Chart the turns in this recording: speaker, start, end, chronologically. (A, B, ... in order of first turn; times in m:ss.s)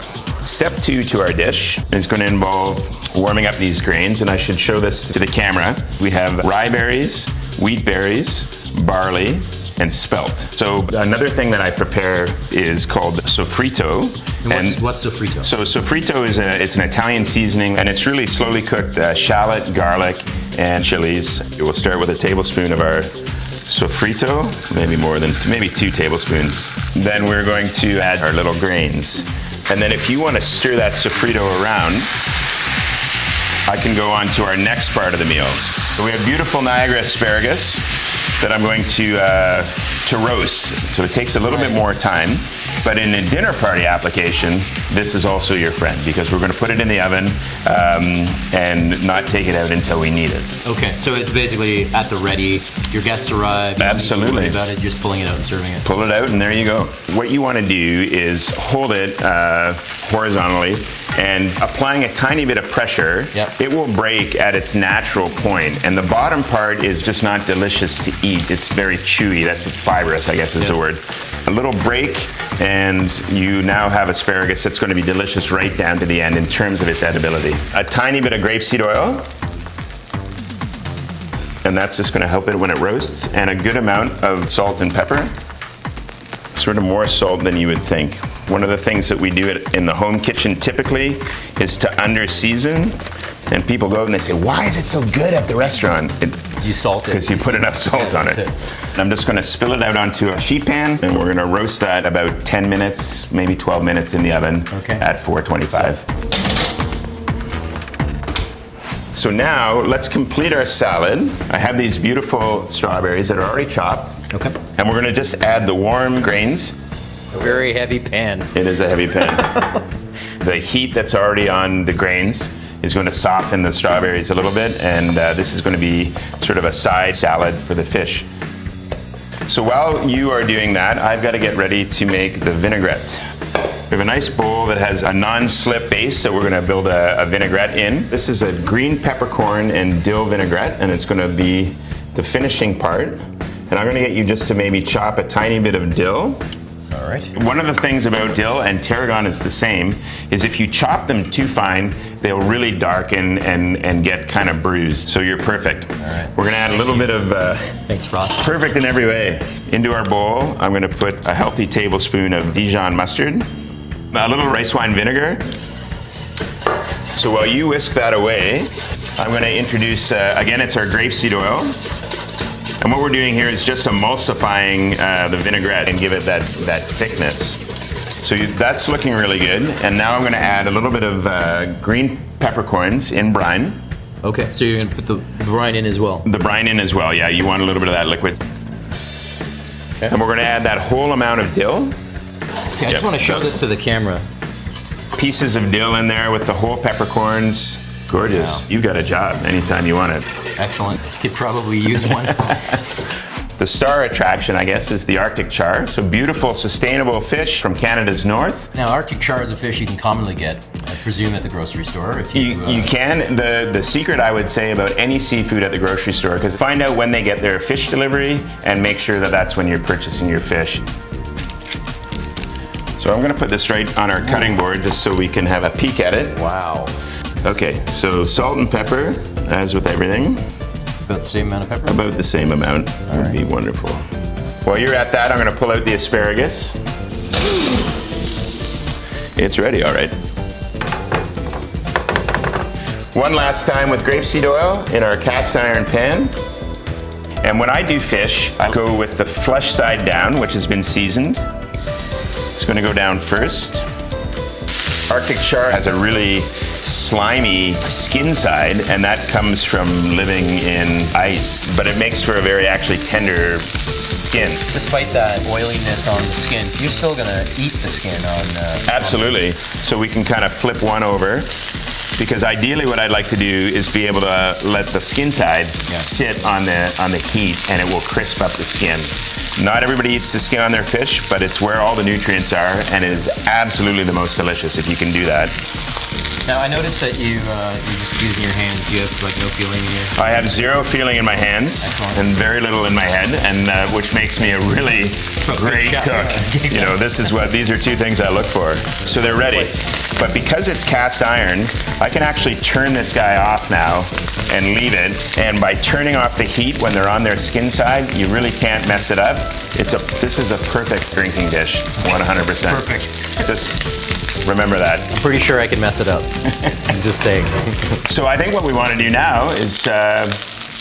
0:00.4-0:14.8 A
0:14.4-0:15.5 B
0:15.4-0:23.1 A
0:23.7-0:32.1 A
0:33.7-0:50.5 A
0:41.4-0:41.8 B
0:50.6-0:55.8 B
0:53.8-0:54.6 A
0:55.8-1:19.3 A
1:21.6-1:25.3 A
1:26.5-1:33.0 A
1:33.5-1:36.5 A
1:36.6-1:38.5 B
1:37.1-1:46.0 A
1:44.7-1:45.0 B
1:49.1-1:54.2 A
1:54.3-1:54.6 B
1:54.7-1:56.7 A
1:57.3-1:58.5 B
1:58.5-1:59.6 A
2:00.4-2:08.2 A
2:09.5-2:13.2 A
2:13.9-2:26.4 A
2:26.9-2:27.3 B
2:27.3-2:37.8 A
2:36.0-2:37.1 B
2:37.9-2:38.5 B
2:38.4-2:43.4 A
2:44.1-2:45.4 A
2:47.1-2:51.9 A
2:52.8-3:03.8 A
3:04.2-3:06.3 B
3:06.2-3:08.4 A
3:10.0-3:12.0 A
3:12.8-3:14.2 B
3:12.9-3:13.4 A
3:15.1-3:20.3 A
3:18.2-3:18.6 B
3:20.6-3:22.7 B
3:23.6-3:28.7 A
3:28.7-3:32.9 B
3:32.3-3:40.9 A
3:43.0-3:46.4 A
3:46.3-3:46.9 B
3:47.4-3:50.4 A
3:51.0-3:52.0 B
3:51.9-3:54.0 A
3:53.1-3:53.4 B
3:54.6-3:56.8 A
3:59.4-4:00.1 A
4:03.1-4:06.3 A
4:07.4-4:11.4 A
4:12.5-4:13.8 A
4:15.1-4:24.6 A
4:24.7-4:29.3 B
4:28.9-4:31.6 A
4:32.2-4:45.5 A
4:46.4-4:50.4 B
4:50.2-5:13.9 A
4:51.8-4:52.3 B
4:55.4-4:57.2 B
4:59.3-4:59.7 B
5:12.6-5:13.5 B
5:14.4-5:15.1 A
5:15.1-5:18.0 B
5:18.1-5:20.4 A